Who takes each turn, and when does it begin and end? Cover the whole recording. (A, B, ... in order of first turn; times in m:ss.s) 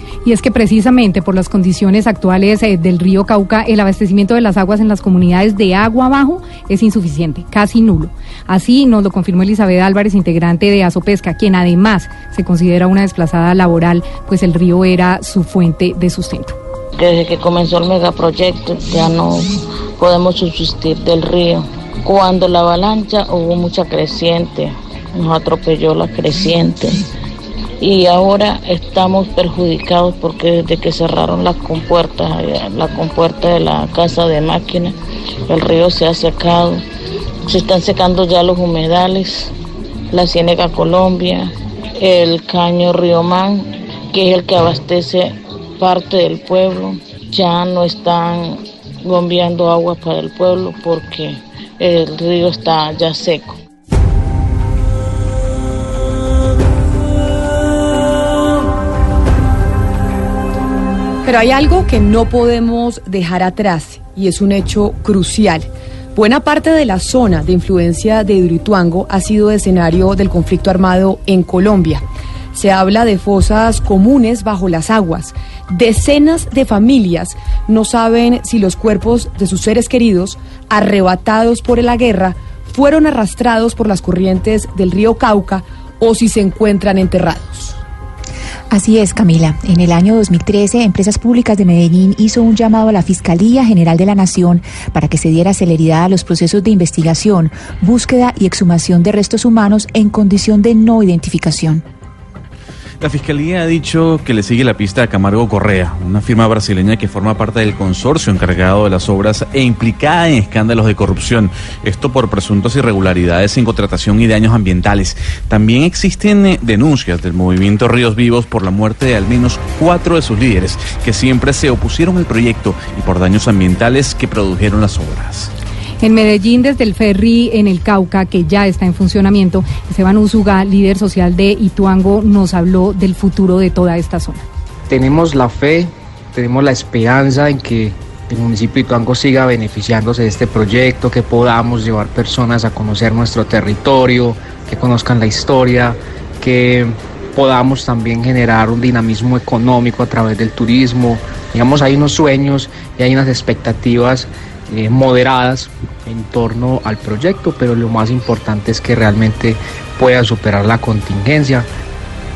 0:00.2-0:16.6 A
0:17.0-0:19.5 B
0:20.0-0:27.0 B
0:27.8-0:34.9 B
0:35.5-0:36.8 B
0:37.5-0:39.5 B
0:40.1-0:53.6 B
1:01.2-1:27.8 C
1:28.7-1:41.8 D
1:43.0-2:05.5 E
2:06.0-2:14.4 A
2:14.9-2:41.7 F